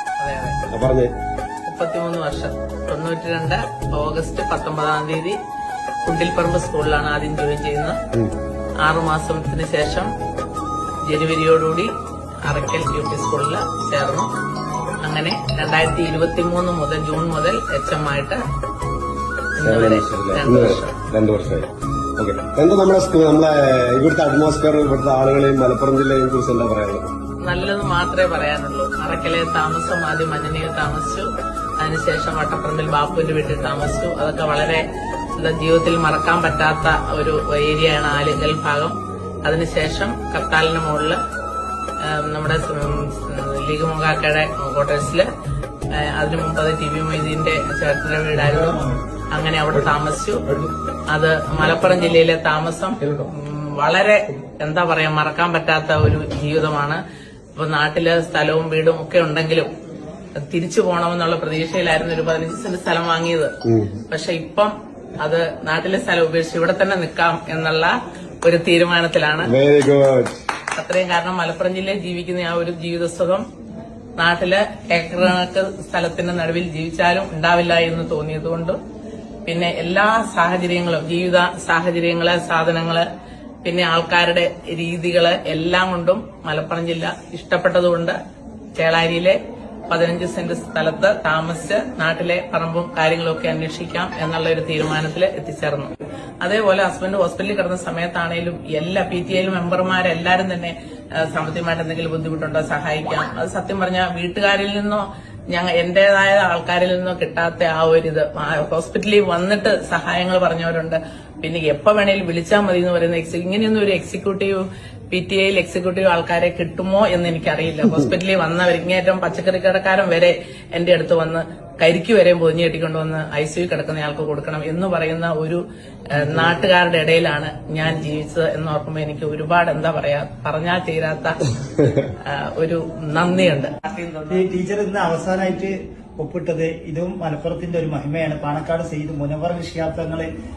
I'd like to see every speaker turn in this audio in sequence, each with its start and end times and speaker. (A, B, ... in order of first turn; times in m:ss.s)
0:00.2-0:00.7 A
0:00.7-0:01.1 B
0:01.6-0:05.4 A
0:06.0-0:08.0 A
0:08.8-0:10.1 A
0:11.0-0:11.9 A
0:12.4-0:14.3 A
0:15.0-0:18.4 A
0:19.6-0:21.0 A
0:19.6-0:27.0 B
0:27.4-0:34.8 A
0:35.4-0:41.2 A
0:42.0-0:45.3 A
0:45.9-0:57.0 A
0:48.3-0:49.0 C
0:57.6-0:59.7 A
1:00.4-1:03.5 A
1:03.6-1:04.0 B
1:04.1-1:09.5 A
1:09.4-1:10.3 B
1:10.7-1:13.4 A
1:14.2-1:18.8 A
1:19.4-1:23.0 A
1:23.6-1:28.2 A
1:28.8-1:29.4 A
1:29.9-2:11.4 A
2:12.2-2:13.8 A
2:14.3-2:20.3 C